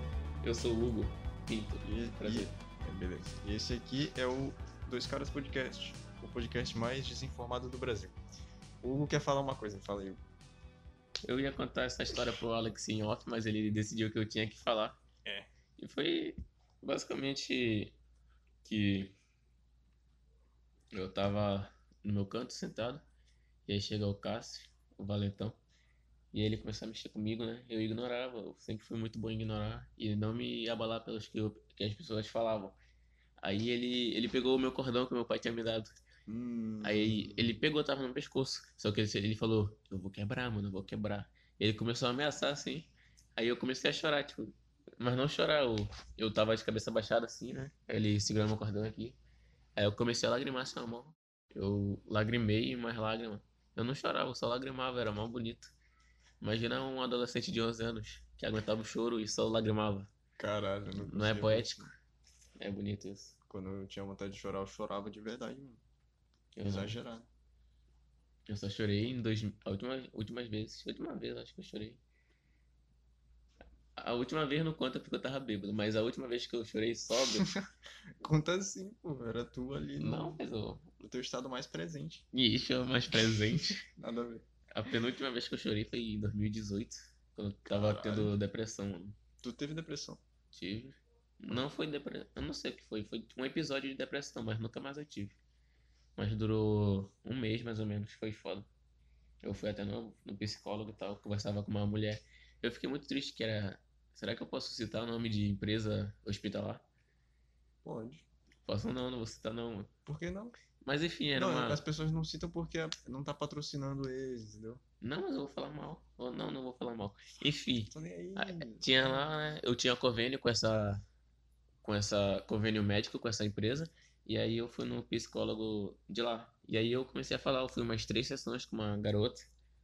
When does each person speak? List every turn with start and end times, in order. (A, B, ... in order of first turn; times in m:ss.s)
0:00.4-0:02.5 A
0:01.8-0:08.2 B
0:08.8-0:10.2 B
0:11.2-0:15.0 A
0:15.8-0:18.0 A
0:18.6-0:19.2 A
0:20.9-0:23.0 A
0:23.7-0:25.6 A
0:26.3-0:32.8 A
0:33.4-0:35.9 A
0:36.3-0:37.6 B
0:36.8-0:49.2 A
0:49.8-0:55.7 A
0:56.4-1:00.1 A
1:00.4-1:01.9 B
1:01.0-1:01.9 A
1:02.6-1:03.3 A
1:03.5-1:05.8 B
1:06.6-1:07.0 A
1:06.6-1:07.3 B
1:08.5-1:12.0 A
1:14.0-1:17.5 A
1:18.2-1:20.4 B
1:20.0-1:20.9 A
1:21.0-1:22.2 B
1:22.3-1:23.8 A
1:24.0-1:24.4 B
1:24.7-1:29.2 A
1:27.7-1:28.4 B
1:29.4-1:30.2 B
1:30.5-1:35.4 A
1:36.2-1:38.7 A
1:39.4-1:46.8 A
1:47.8-1:48.3 B
1:48.6-1:49.9 A
1:50.0-1:50.6 B
1:50.8-1:51.8 A
1:51.3-1:54.8 B
1:55.0-2:01.0 A
1:57.9-1:59.3 B
2:01.8-2:09.5 A